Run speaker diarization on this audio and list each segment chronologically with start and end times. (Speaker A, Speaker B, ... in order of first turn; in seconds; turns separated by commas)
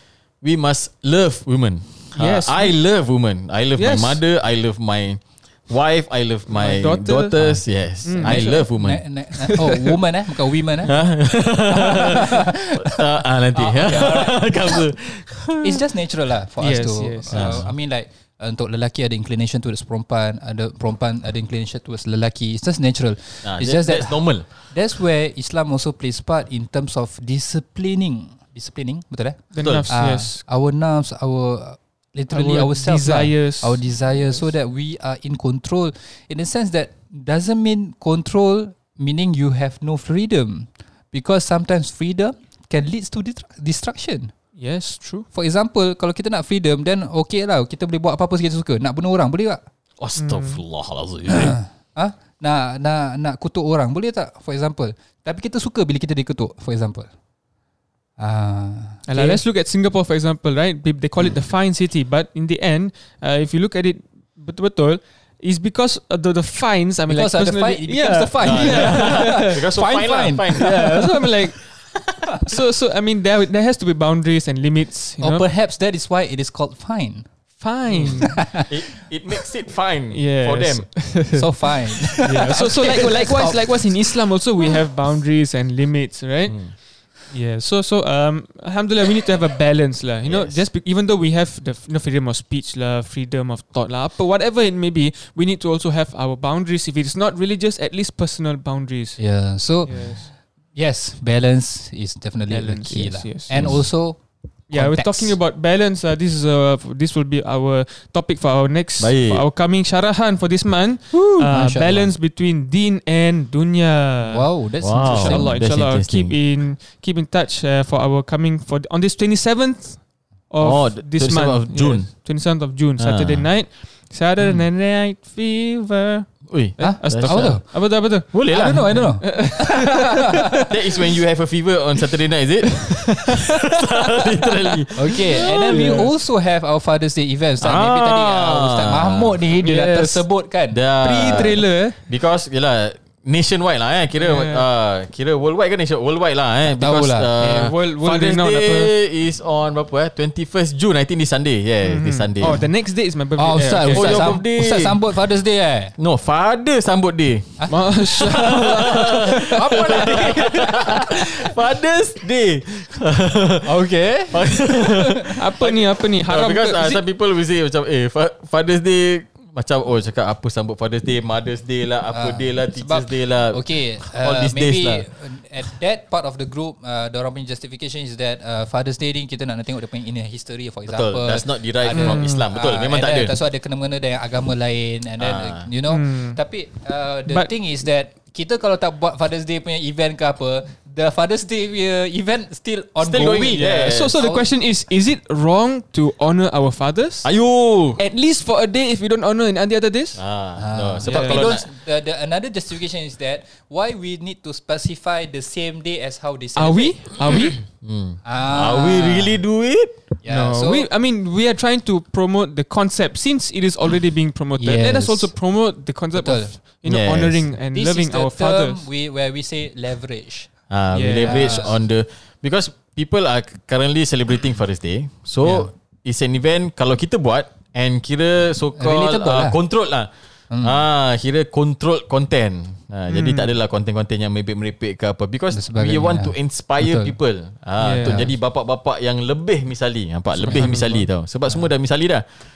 Speaker A: 0.4-9.2, Speaker B: 2.2-2.8, Speaker B: 3.8-4.2, Speaker B: 6.5-8.7, Speaker C: 8.1-11.0, Speaker A: 10.9-15.8, Speaker C: 11.7-14.8, Speaker C: 15.6-44.3, Speaker B: 16.6-17.6, Speaker A: 17.3-17.7, Speaker A: 23.4-24.7, Speaker B: 29.5-30.4, Speaker A: 29.6-29.9, Speaker B: 32.3-34.1, Speaker B: 44.6-45.3, Speaker C: 45.3-49.6, Speaker A: 50.0-51.6, Speaker B: 50.2-50.6, Speaker C: 51.3-57.1, Speaker C: 58.2-59.4, Speaker B: 59.1-69.6, Speaker C: 67.1-71.2, Speaker A: 68.4-71.3, Speaker B: 70.5-75.4, Speaker C: 75.2-77.3, Speaker B: 77.6-78.5, Speaker A: 77.9-81.0, Speaker C: 78.3-78.7, Speaker B: 80.1-100.3, Speaker C: 81.3-84.1, Speaker A: 86.5-86.7, Speaker A: 90.2-90.7, Speaker C: 99.2-105.4, Speaker B: 102.5-103.8, Speaker A: 103.5-103.9, Speaker B: 104.7-130.7, Speaker A: 109.0-109.5, Speaker A: 111.2-111.5, Speaker C: 111.5-112.1, Speaker C: 114.2-115.6, Speaker A: 114.8-116.4, Speaker A: 120.6-122.1, Speaker A: 123.0-123.5, Speaker A: 126.5-129.2, Speaker C: 126.8-130.2, Speaker A: 130.7-136.0, Speaker C: 135.0-141.5, Speaker B: 135.4-136.1, Speaker A: 137.6-139.4, Speaker B: 139.6-140.3, Speaker A: 140.7-152.6, Speaker B: 141.0-142.1, Speaker B: 144.2-144.7, Speaker C: 146.7-147.3, Speaker B: 147.4-148.9, Speaker B: 151.8-154.4, Speaker C: 153.4-155.9, Speaker A: 153.9-155.0, Speaker A: 156.0-175.1, Speaker C: 157.6-161.3, Speaker B: 157.7-160.3, Speaker C: 163.6-165.3, Speaker B: 165.3-167.0, Speaker C: 172.1-194.5, Speaker A: 180.9-183.4, Speaker B: 181.9-182.4, Speaker A: 185.2-185.7, Speaker B: 185.9-186.4, Speaker A: 193.0-194.2, Speaker B: 193.5-197.3, Speaker A: 197.2-198.0, Speaker B: 198.0-200.2, Speaker A: 200.2-201.7, Speaker C: 200.6-207.2, Speaker B: 201.0-201.5, Speaker B: 206.6-207.6, Speaker A: 207.6-210.0, Speaker C: 208.2-209.4, Speaker C: 210.2-210.9, Speaker B: 210.3-218.9, Speaker C: 214.6-215.4, Speaker C: 216.1-216.6, Speaker A: 216.8-217.5, Speaker C: 217.7-220.5, Speaker A: 220.7-230.1, Speaker B: 220.9-221.7, Speaker C: 221.2-221.8, Speaker C: 225.4-225.7, Speaker C: 228.8-229.6, Speaker C: 230.5-230.8, Speaker A: 230.6-242.2, Speaker B: 233.1-233.5, Speaker C: 235.5-237.2, Speaker B: 237.8-238.2, Speaker B: 240.4-241.1, Speaker C: 240.4-240.7